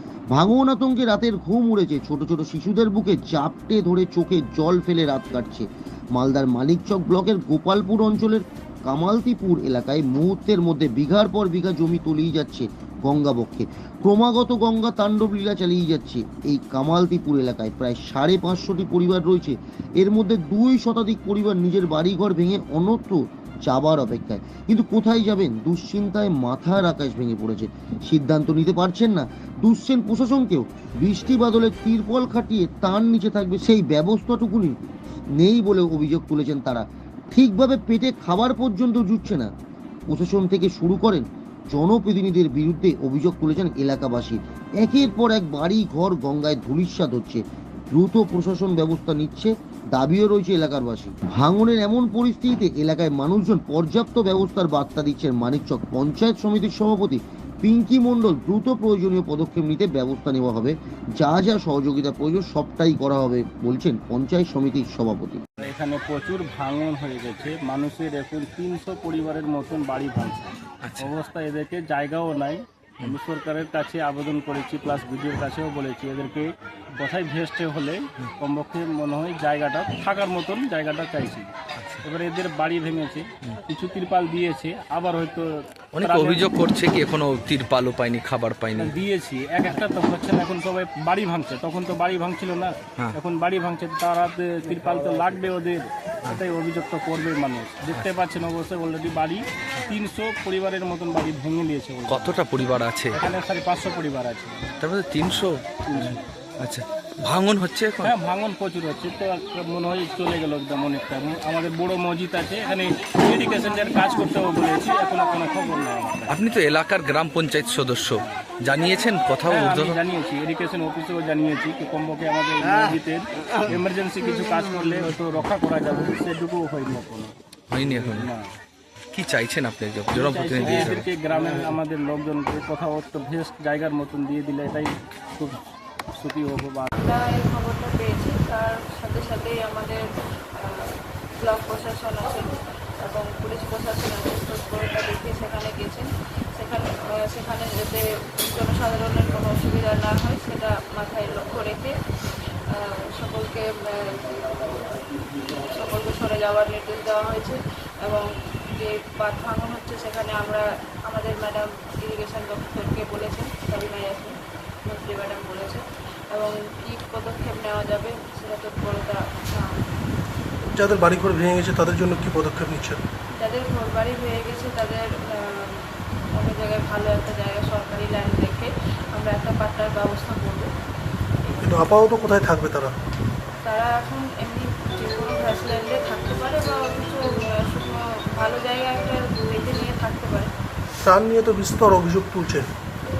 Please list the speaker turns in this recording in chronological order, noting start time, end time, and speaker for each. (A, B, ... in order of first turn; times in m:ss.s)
0:00.3-0:34.8 A
0:35.4-0:39.5 A
0:40.1-1:05.4 A
1:05.6-1:21.5 B
1:10.8-1:11.1 C
1:21.8-1:22.0 C
1:22.0-1:26.4 B
1:25.9-1:28.9 C
1:28.8-1:42.4 B
1:42.1-1:43.2 C
1:43.1-1:44.7 B
1:44.8-1:48.1 C
1:45.9-1:46.2 B
1:48.0-1:56.4 B
1:56.3-2:00.0 C
1:59.5-2:07.3 B
2:07.7-2:08.3 C
2:08.0-2:08.5 B
2:09.1-2:11.0 C
2:10.1-2:15.6 B
2:16.1-2:16.9 B
2:17.0-2:20.0 D
2:20.5-2:49.8 D
2:50.6-2:53.0 E
2:53.4-3:00.7 D
3:01.4-3:01.9 D
3:01.6-3:02.9 E
3:03.6-3:10.5 D
3:11.0-3:12.7 E